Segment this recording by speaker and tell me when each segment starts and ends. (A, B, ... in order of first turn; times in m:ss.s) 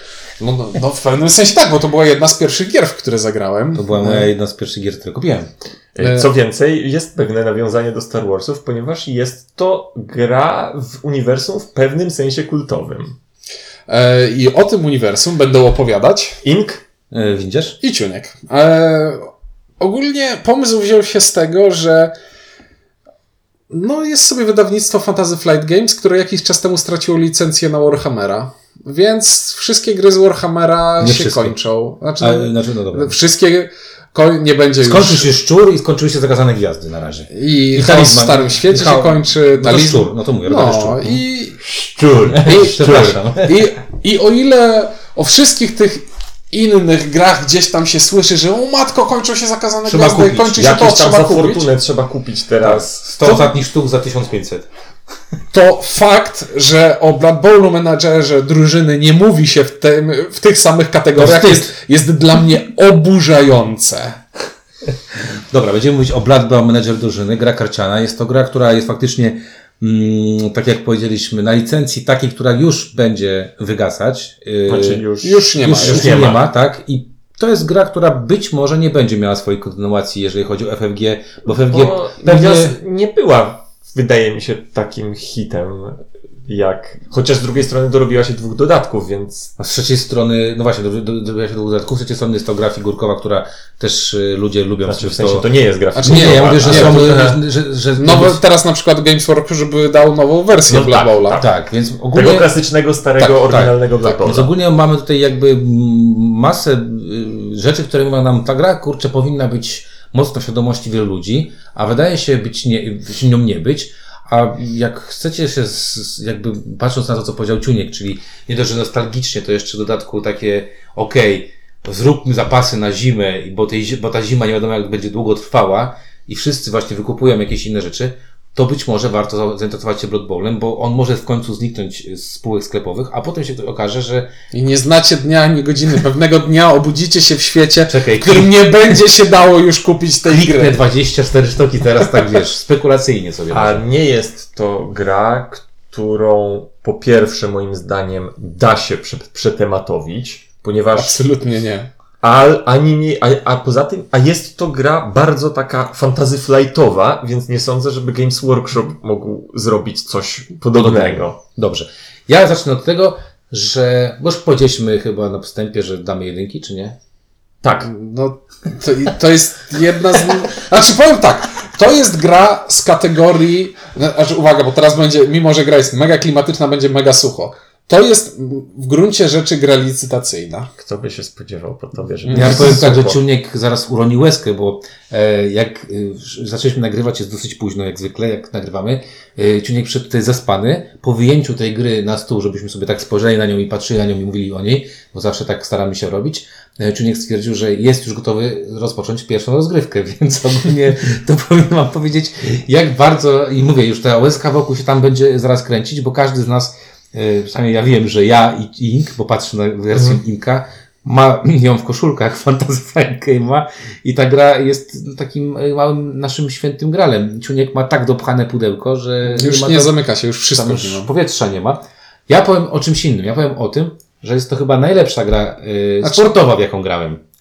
0:00.4-0:04.3 A
0:03.7-0:05.5 B
0:05.9-0:13.2 C
0:06.0-0:06.3 A
0:13.9-0:16.4 A
0:16.4-0:16.8 C
0:17.1-0:17.8 B
0:17.8-0:19.3 A
0:19.8-0:22.1 A
0:23.7-0:35.3 A
0:31.0-0:31.5 B
0:32.2-0:33.2 B
0:34.8-0:43.6 B
0:37.3-0:41.6 A
0:42.4-0:51.7 A
0:49.8-0:50.7 B
0:50.6-0:53.0 C
0:52.6-0:54.7 B
0:55.5-1:04.2 A
1:01.2-1:01.6 B
1:05.5-1:15.0 B
1:14.7-1:16.5 C
1:15.2-1:16.2 A
1:15.6-1:22.7 B
1:21.7-1:29.5 C
1:29.6-1:35.4 B
1:34.8-1:37.4 C
1:36.0-1:37.2 A
1:36.0-1:38.4 B
1:38.0-1:41.4 A
1:40.7-1:41.5 C
1:41.4-1:42.5 B
1:42.1-1:44.5 C
1:43.2-1:43.7 A
1:43.5-2:14.3 B
2:14.5-2:20.8 A
2:17.9-2:18.9 B
2:20.2-2:23.8 B
2:23.5-2:31.2 C
2:30.9-2:31.9 A
2:32.2-2:41.4 C
2:40.7-2:47.0 B
2:47.6-2:47.9 C
2:47.8-3:00.7 A
3:00.8-3:03.2 C
3:02.2-3:02.8 A
3:02.3-3:39.9 B
3:29.9-3:30.2 C
3:39.3-3:41.1 A
3:40.5-3:47.2 B
3:46.0-3:46.3 A